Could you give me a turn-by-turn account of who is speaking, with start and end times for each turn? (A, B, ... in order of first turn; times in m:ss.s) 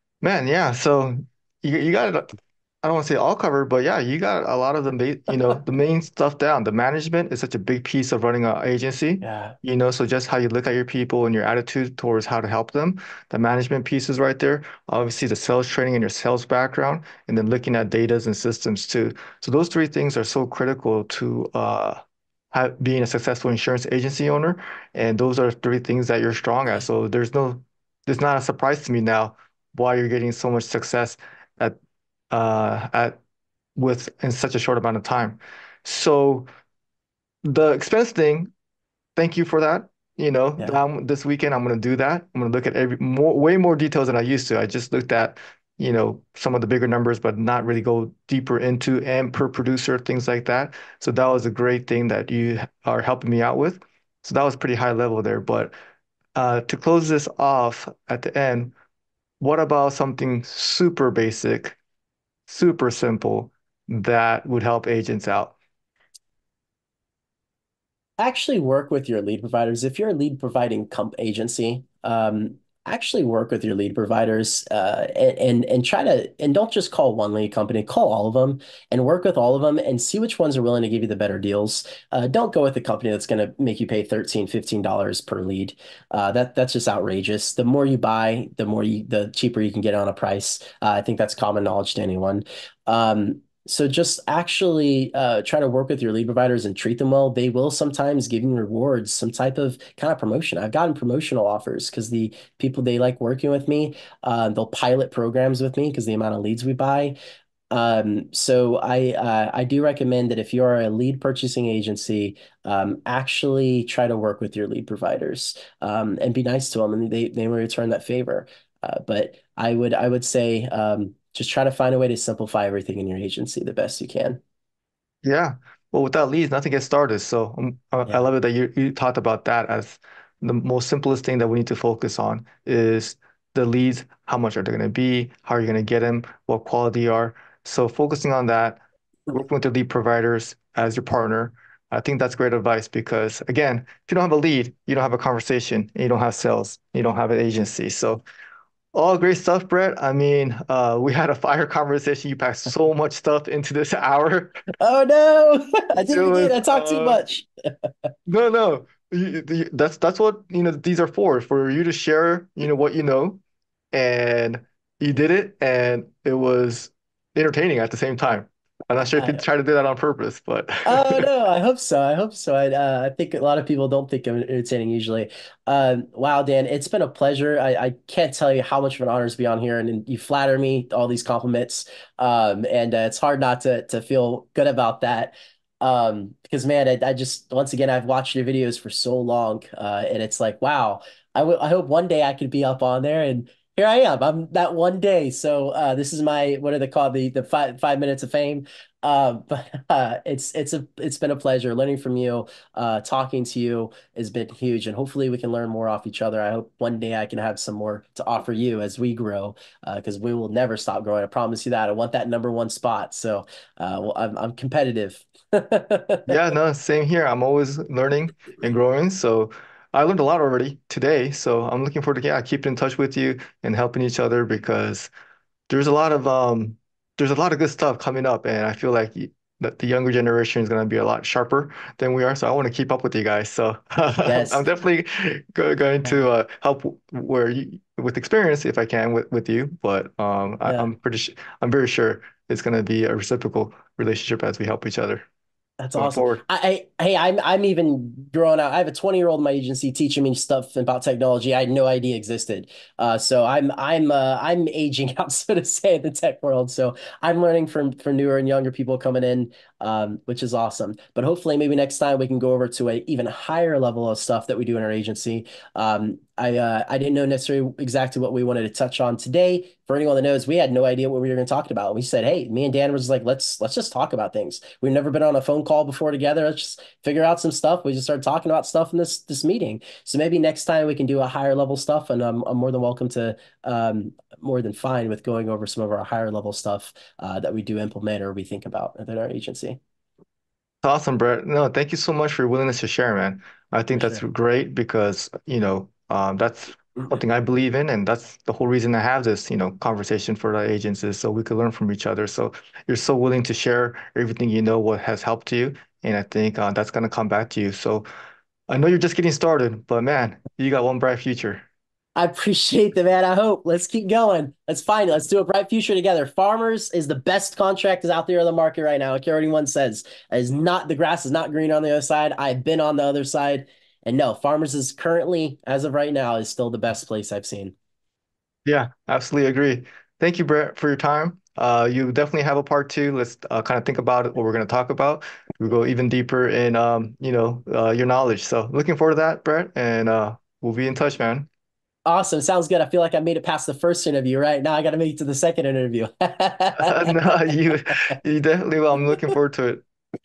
0:00.2-0:22.0 A
0:09.2-0:09.6 B
0:22.5-0:31.8 A
0:32.3-0:33.2 A
0:33.8-0:36.5 A
0:37.4-0:38.5 A
0:39.2-0:55.7 A
0:56.3-0:58.7 A
0:59.4-1:01.8 A
1:02.5-1:05.6 A
1:08.2-1:47.2 B
1:47.7-2:04.4 B
2:05.2-2:18.8 A
2:19.3-2:28.2 A
2:28.9-2:34.6 A
2:34.8-2:38.1 B
2:36.1-2:37.2 A
2:38.3-2:43.4 A
2:43.9-2:51.3 A
2:49.1-2:49.4 B
2:50.8-3:36.3 B
3:36.3-3:45.1 A
3:45.7-4:05.2 A
3:54.2-3:54.6 B
4:00.6-4:00.9 B
4:05.8-4:49.8 B
4:06.0-4:06.4 A
4:50.8-5:08.0 A
4:53.9-4:54.2 B
5:08.7-5:11.6 A
5:12.2-5:27.7 B
5:28.6-5:41.5 A
5:42.0-5:47.2 B
5:46.8-5:49.8 A